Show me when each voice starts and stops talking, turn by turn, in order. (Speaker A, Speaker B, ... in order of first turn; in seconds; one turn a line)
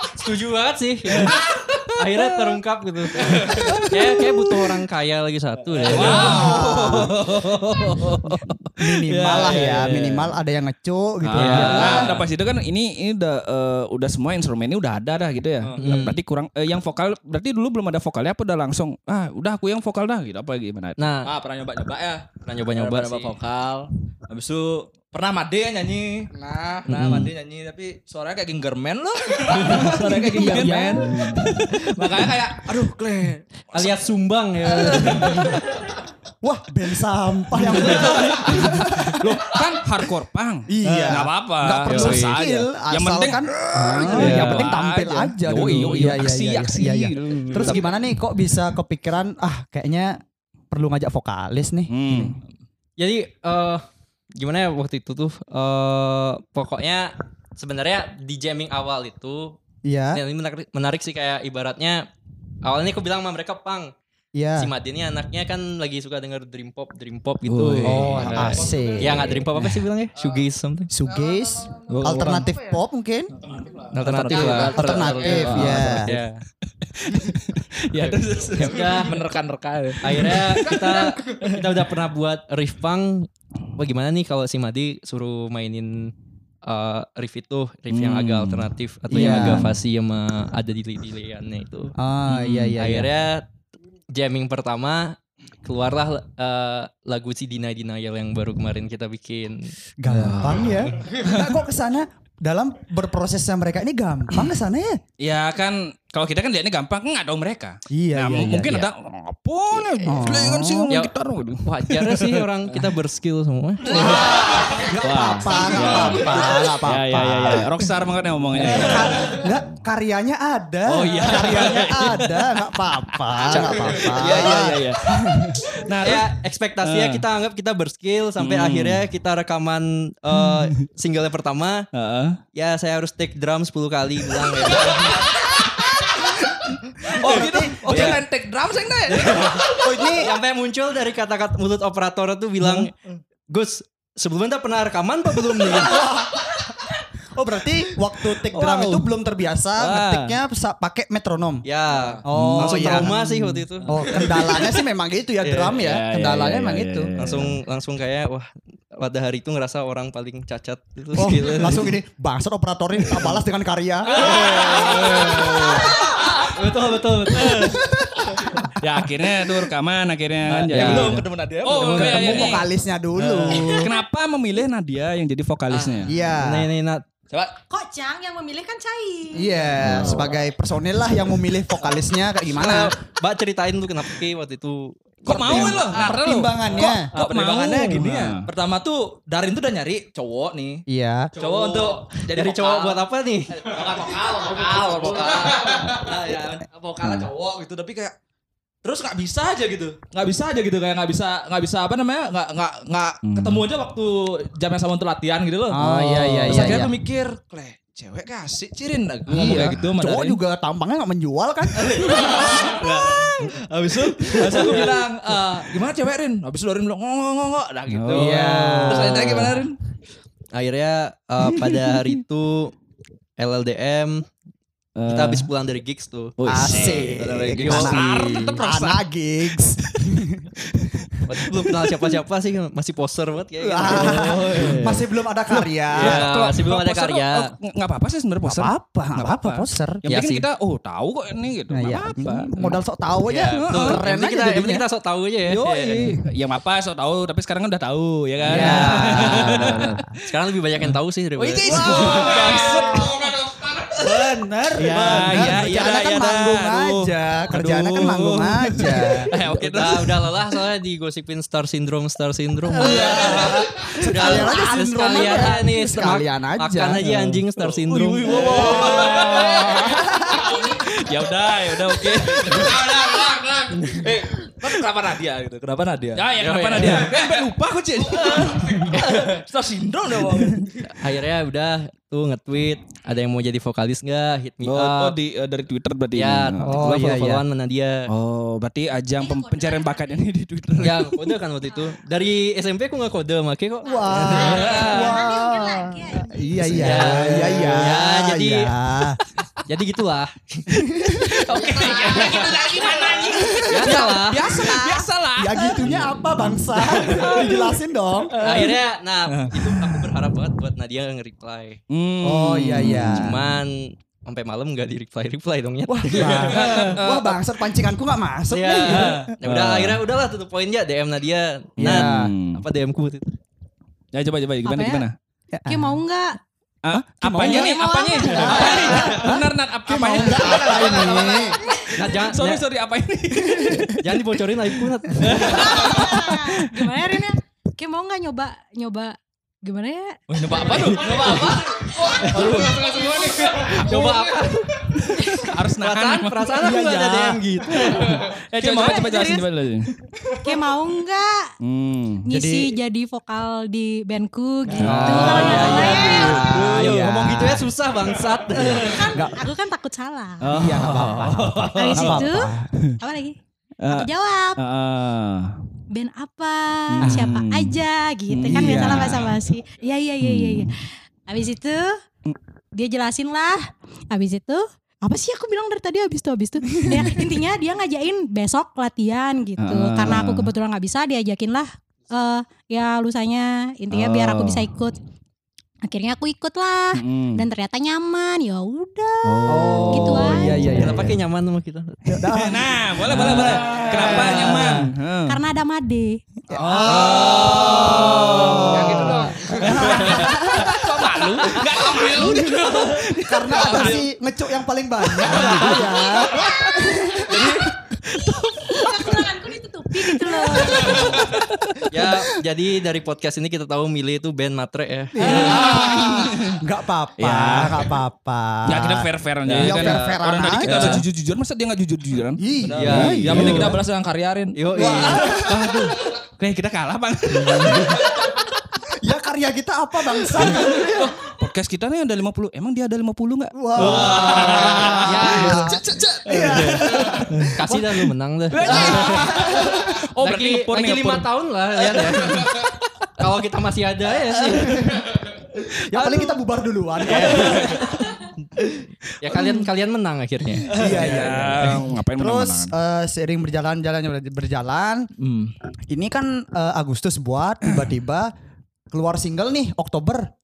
Speaker A: 0.1-1.4
Speaker B: 1.2-2.6
Speaker A: 2.0-6.7
Speaker B: 3.3-4.8
Speaker C: 5.8-6.5
Speaker B: 5.9-10.3
Speaker D: 6.0-7.2
Speaker D: 8.8-12.2
Speaker B: 11.2-21.0
Speaker A: 11.3-12.2
Speaker C: 11.5-12.2
Speaker C: 15.6-16.0
Speaker A: 15.8-16.2
Speaker A: 21.0-21.3
Speaker C: 21.2-26.3
Speaker A: 22.4-23.4
Speaker E: 26.3-26.9
Speaker C: 26.9-31.1
Speaker A: 26.9-27.3
Speaker B: 29.6-32.1
Speaker D: 30.1-31.7
Speaker C: 31.9-34.0
Speaker A: 33.7-35.6
Speaker D: 34.8-35.6
Speaker D: 36.4-39.2
Speaker B: 38.1-47.9
Speaker D: 40.7-50.2
Speaker A: 41.9-42.4
Speaker A: 44.0-44.7
Speaker A: 47.5-47.9
Speaker D: 50.7-52.3
Speaker B: 51.9-52.4
Speaker A: 53.0-53.9
Speaker A: 54.4-59.6
Speaker D: 59.9-60.2
Speaker A: 60.1-62.1
Speaker A: 62.6-63.9
Speaker D: 64.3-64.7
Speaker A: 64.6-70.9
Speaker B: 67.5-68.3
Speaker D: 67.8-69.5
Speaker C: 67.9-68.9
Speaker D: 70.9-73.3
Speaker E: 71.1-71.9
Speaker C: 71.9-72.4
Speaker B: 71.9-72.5
Speaker C: 73.4-76.2
Speaker A: 73.9-76.4
Speaker E: 74.3-75.6
Speaker D: 74.6-76.2
Speaker B: 76.9-79.1
Speaker C: 78.0-81.0
Speaker A: 78.6-79.2
Speaker A: 80.0-86.1
Speaker E: 80.7-81.4
Speaker A: 86.6-92.0
Speaker B: 87.9-89.7
Speaker D: 89.1-89.7
Speaker D: 92.0-93.1
Speaker B: 92.3-92.7
Speaker A: 92.8-93.5
Speaker A: 94.1-99.8
Speaker D: 100.0-105.0
Speaker B: 100.1-101.5
Speaker B: 105.2-112.5
Speaker D: 107.9-108.9
Speaker D: 110.0-110.9
Speaker A: 111.7-114.8
Speaker D: 113.9-117.7
Speaker B: 115.0-119.4
Speaker D: 118.6-125.6
Speaker B: 120.9-122.6
Speaker A: 123.5-124.5
Speaker B: 123.5-126.3
Speaker A: 126.0-131.9
Speaker B: 126.8-127.2
Speaker B: 128.4-129.1
Speaker B: 130.3-130.8
Speaker B: 131.9-132.4
Speaker A: 132.6-135.3
Speaker C: 137.2-139.8
Speaker D: 137.2-138.1
Speaker B: 137.3-138.2
Speaker A: 137.9-138.2
Speaker A: 139.1-142.9
Speaker D: 139.8-140.3
Speaker A: 143.5-146.1
Speaker D: 145.7-146.6
Speaker D: 147.4-151.6
Speaker B: 148.5-149.1
Speaker B: 149.8-150.4
Speaker A: 151.6-154.6
Speaker C: 151.9-152.2
Speaker D: 152.2-153.2
Speaker B: 152.3-153.6
Speaker D: 153.8-157.1
Speaker A: 155.4-155.8
Speaker B: 155.8-157.6
Speaker A: 157.2-162.0
Speaker D: 161.2-164.6
Speaker A: 164.2-167.8
Speaker C: 164.3-165.0
Speaker B: 164.8-165.9
Speaker D: 167.5-168.2
Speaker B: 168.8-172.7
Speaker C: 170.4-172.6
Speaker A: 170.7-171.2
Speaker D: 171.8-173.9
Speaker B: 173.4-176.1
Speaker C: 175.7-176.1
Speaker D: 176.1-176.7
Speaker A: 176.4-177.1
Speaker F: 177.7-179.6
Speaker D: 179.3-182.9
Speaker B: 179.8-180.3
Speaker A: 182.6-185.9
Speaker B: 185.2-188.5
Speaker D: 185.3-187.1
Speaker C: 185.4-190.8
Speaker D: 190.9-191.3
Speaker C: 191.3-198.2
Speaker A: 191.4-193.9
Speaker B: 197.0-197.3
Speaker C: 198.8-210.4
Speaker B: 203.2-203.7
Speaker D: 205.7-206.9
Speaker D: 209.3-213.2
Speaker B: 209.4-209.9
Speaker C: 211.8-219.8
Speaker D: 214.2-214.9
Speaker B: 217.9-219.5
Speaker D: 218.1-219.5
Speaker A: 220.5-222.7
Speaker B: 221.6-221.9
Speaker A: 223.4-224.3
Speaker B: 225.0-225.5
Speaker A: 225.1-228.1
Speaker B: 226.4-228.0
Speaker D: 226.5-230.5
Speaker C: 227.7-228.9
Speaker A: 231.3-234.9
Speaker D: 233.6-236.3
Speaker B: 233.9-242.6
Speaker A: 235.9-237.5
Speaker D: 238.4-240.0
Speaker A: 240.1-240.5
Speaker D: 241.7-244.8
Speaker A: 243.3-246.2
Speaker B: 243.5-244.0
Speaker B: 245.5-250.2
Speaker D: 248.4-250.1
Speaker A: 248.4-252.5
Speaker B: 251.4-253.1
Speaker C: 251.6-253.1
Speaker D: 251.7-253.3
Speaker E: 253.3-254.0
Speaker D: 254.0-259.3
Speaker C: 254.0-255.6
Speaker B: 254.8-260.4
Speaker A: 259.5-269.2
Speaker D: 262.7-267.1
Speaker C: 267.6-270.8
Speaker D: 268.9-270.5
Speaker B: 270.7-272.8
Speaker C: 271.3-280.9
Speaker E: 272.9-273.8
Speaker B: 276.1-278.5
Speaker A: 276.4-277.2
Speaker A: 280.8-285.2
Speaker B: 284.6-286.9
Speaker A: 286.1-288.1
Speaker D: 286.7-287.4
Speaker B: 288.1-291.4
Speaker F: 289.2-290.2
Speaker A: 290.8-295.1
Speaker F: 291.6-292.0
Speaker D: 293.9-299.2
Speaker F: 293.9-297.3
Speaker A: 296.7-298.7
Speaker A: 299.6-302.5
Speaker D: 300.7-301.4
Speaker B: 301.4-306.3
Speaker C: 301.6-303.9
Speaker F: 301.6-302.9
Speaker D: 303.4-308.4
Speaker A: 303.5-304.7
Speaker C: 304.7-305.1
Speaker B: 307.1-307.5
Speaker A: 308.4-311.8
Speaker C: 309.4-309.6
Speaker B: 311.9-313.5
Speaker D: 312.2-313.4
Speaker A: 312.8-317.0
Speaker D: 315.9-319.3
Speaker B: 316.3-317.4
Speaker A: 318.5-323.3
Speaker B: 318.9-320.0
Speaker D: 321.8-322.3
Speaker B: 321.8-322.6
Speaker B: 324.1-325.1
Speaker F: 324.6-325.1
Speaker D: 325.5-326.0
Speaker F: 325.7-326.4
Speaker B: 326.8-331.0
Speaker D: 327.2-331.6
Speaker F: 327.3-329.3
Speaker C: 330.1-331.5
Speaker F: 331.6-332.1
Speaker A: 331.9-332.6
Speaker B: 332.1-334.0
Speaker D: 333.4-334.0
Speaker A: 334.0-336.0
Speaker B: 335.2-337.0
Speaker F: 335.4-344.0
Speaker C: 340.3-341.8
Speaker A: 341.0-341.5
Speaker E: 342.0-344.5
Speaker C: 342.3-343.1
Speaker A: 342.4-342.7
Speaker A: 343.6-348.4
Speaker B: 345.0-346.9
Speaker F: 345.2-345.5
Speaker D: 346.6-347.4
Speaker B: 347.8-349.9
Speaker F: 348.6-349.5
Speaker F: 350.4-351.5
Speaker B: 351.6-352.3
Speaker F: 352.2-356.7
Speaker D: 352.3-352.8
Speaker B: 354.8-355.7
Speaker D: 354.8-357.7
Speaker A: 354.8-359.2
Speaker B: 356.8-357.1
Speaker D: 358.5-359.4
Speaker F: 358.9-360.5
Speaker B: 360.4-362.3
Speaker D: 360.5-362.7
Speaker F: 361.7-363.4
Speaker B: 363.8-365.6
Speaker F: 363.9-364.6
Speaker F: 365.9-372.0
Speaker B: 366.9-369.4
Speaker D: 367.0-367.3
Speaker D: 368.4-369.2
Speaker B: 370.2-370.7
Speaker F: 372.8-385.0
Speaker B: 379.6-380.5
Speaker B: 383.9-384.7
Speaker F: 385.9-390.8
Speaker B: 386.9-387.5
Speaker B: 389.2-390.8
Speaker D: 389.5-391.2
Speaker A: 390.7-392.2
Speaker D: 392.1-394.9
Speaker B: 392.3-395.4
Speaker C: 393.7-394.1
Speaker F: 395.3-396.2
Speaker D: 396.5-401.5
Speaker B: 396.6-404.1
Speaker C: 396.8-398.2
Speaker A: 397.2-398.0
Speaker E: 398.6-399.9
Speaker C: 400.5-401.6
Speaker E: 401.6-402.9
Speaker D: 402.0-407.7
Speaker E: 403.5-404.0
Speaker B: 405.1-406.6
Speaker B: 407.4-409.3
Speaker F: 408.7-411.2
Speaker B: 410.0-411.9
Speaker D: 410.5-411.3
Speaker A: 411.9-415.7
Speaker D: 415.1-421.0
Speaker B: 415.4-416.6
Speaker B: 417.2-417.9
Speaker B: 418.6-423.8
Speaker C: 419.5-419.8
Speaker A: 419.6-421.0
Speaker C: 420.7-421.0
Speaker D: 422.4-423.8
Speaker C: 422.6-424.6
Speaker A: 422.8-423.8
Speaker A: 424.6-426.0
Speaker D: 424.7-425.9
Speaker B: 424.8-428.6
Speaker D: 427.3-428.1
Speaker D: 429.0-431.2
Speaker B: 430.4-437.5
Speaker D: 433.5-438.1
Speaker A: 433.8-435.8
Speaker C: 434.0-434.4
Speaker A: 436.4-442.6
Speaker B: 438.5-441.3
Speaker D: 438.6-440.0
Speaker B: 441.9-442.6
Speaker A: 443.2-445.0
Speaker D: 444.6-445.0
Speaker D: 445.7-447.9
Speaker A: 446.0-446.4
Speaker A: 447.1-448.0
Speaker B: 447.1-448.1
Speaker A: 449.2-451.0
Speaker D: 450.7-455.1
Speaker C: 450.8-451.1
Speaker B: 450.8-452.7
Speaker C: 455.2-455.5
Speaker D: 455.9-458.3
Speaker D: 458.9-460.3